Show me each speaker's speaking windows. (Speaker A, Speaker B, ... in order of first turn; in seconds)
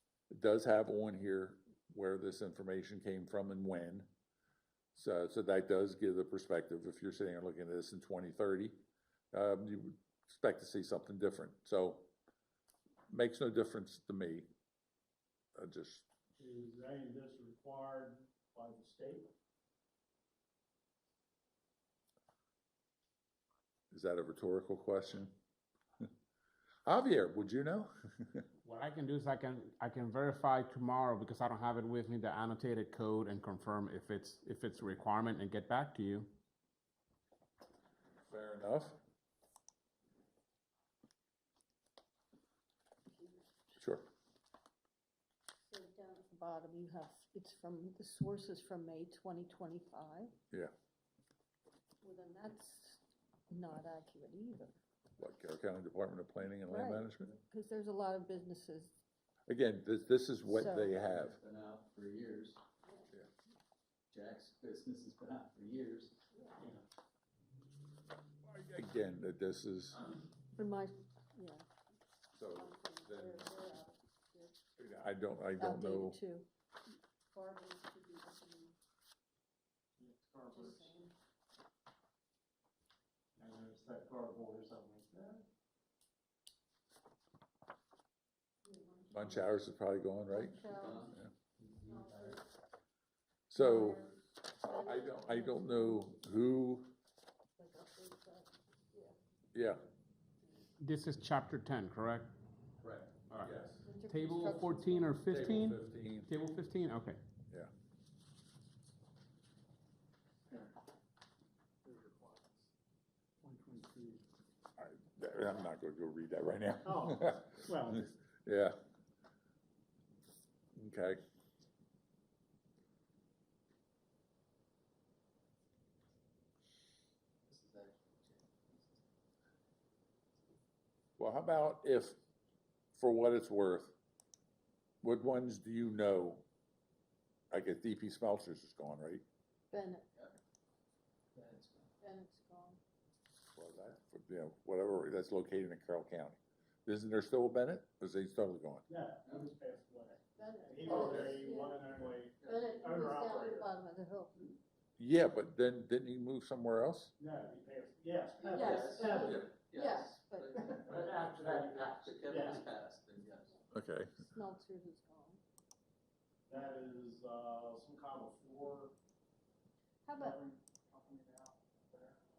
Speaker A: 0.3-4.1, 5.0-8.8, 9.3-12.1, 13.1-14.5, 15.6-16.1, 23.9-25.4, 26.9-28.4, 38.3-39.0, 43.8-44.1, 55.2-57.4, 59.5-61.4, 68.5-70.0, 72.3-73.8, 74.8-76.2, 89.1-90.6, 93.5-94.1, 94.7-96.9, 99.5-99.8, 102.8-103.9, 105.3-106.3, 114.8-118.8, 120.8-121.2, 131.2-132.2, 133.0-133.9, 135.0-136.4, 137.5-139.2, 143.6-148.8, 151.0-151.4, 155.0-157.1, 163.7-164.2
Speaker B: 16.4-19.3, 66.6-66.8, 80.0-80.9, 83.4-85.5, 91.8-92.4, 111.8-112.7, 113.4-114.2, 116.8-118.1, 148.9-153.7, 157.2-159.5, 160.7-162.7, 166.5-168.9, 170.2-172.2
Speaker C: 28.6-36.3, 100.8-102.3, 104.1-107.2
Speaker D: 43.1-43.8, 45.7-50.3, 52.0-54.8, 56.7-59.0, 60.5-61.0, 62.8-63.1, 66.3-66.6, 70.5-71.7, 72.5-74.6, 75.6-76.5, 77.3-78.8, 80.5-81.1, 88.7-89.7, 90.3-91.2, 91.8-92.5, 93.5-96.1, 97.6-99.2, 103.8-105.2, 139.7-140.1, 142.0-142.8, 150.4-154.4, 158.4-161.0, 164.2-165.4, 170.1-170.4
Speaker E: 61.0-62.6, 64.1-66.1, 90.7-91.1, 127.5-129.0, 141.3-141.9, 158.5-163.6